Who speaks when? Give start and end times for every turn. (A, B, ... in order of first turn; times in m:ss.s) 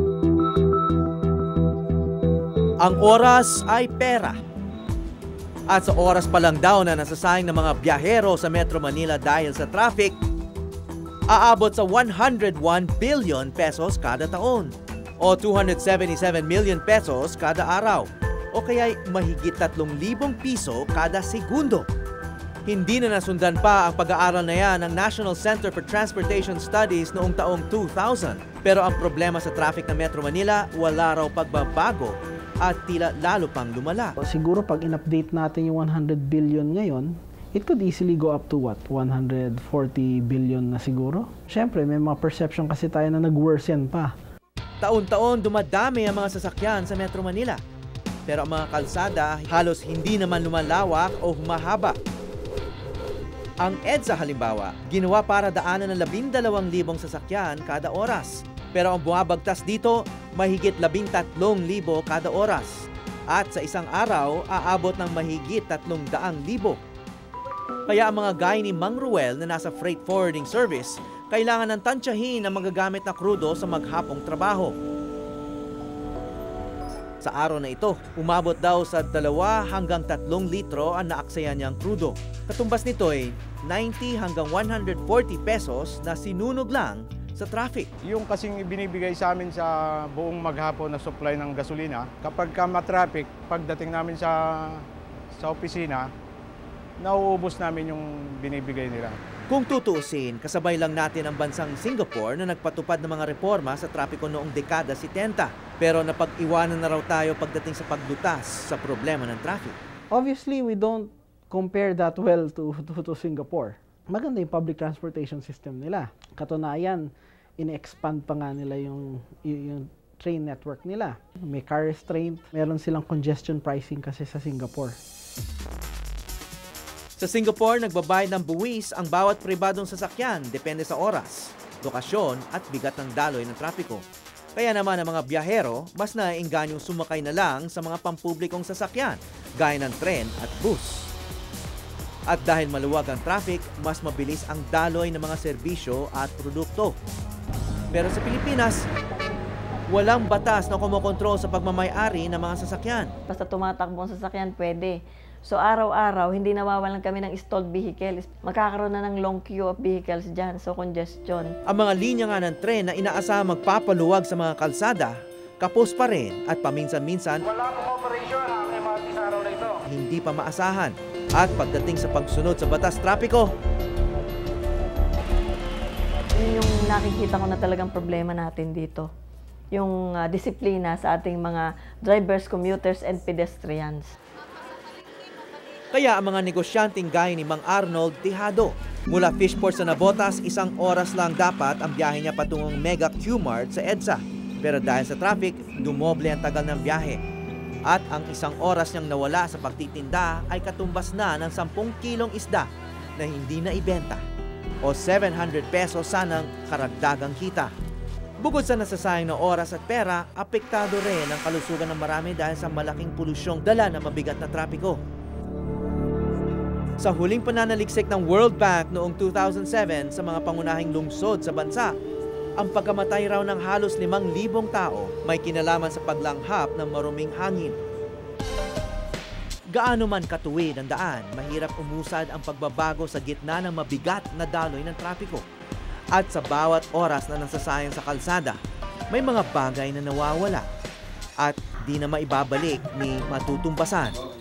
0:02.8-0:04.4 A
0:05.7-0:10.2 A
0:11.3-0:21.9 A
0:22.7-0:34.2 A
0:34.2-0:44.1 B
0:44.8-0:47.6 A
0:48.3-0:52.0 A
0:53.6-1:06.8 A
1:07.9-1:14.8 A
1:17.2-1:27.9 A
1:28.1-1:36.1 C
1:37.0-1:39.2 C
1:39.5-1:49.8 A
1:50.1-2:05.0 B
2:07.2-2:14.0 A
2:14.6-2:21.1 A
2:22.3-2:27.0 A
2:27.9-2:28.9 A
2:29.9-2:33.1 A
2:33.3-2:41.5 D
2:41.7-2:47.6 A
2:47.7-2:49.7 D
2:49.9-2:53.5 A
2:56.4-2:59.1 D
2:59.7-3:04.1 D
3:05.9-3:17.2 A
3:17.8-3:24.2 A
3:24.8-3:27.7 A
3:28.4-3:35.0 A
3:37.0-3:42.0 A
3:42.6-3:47.8 A
3:49.7-3:55.4 A
3:56.1-3:58.6 A
3:59.1-4:00.7 A
4:01.4-4:04.2 A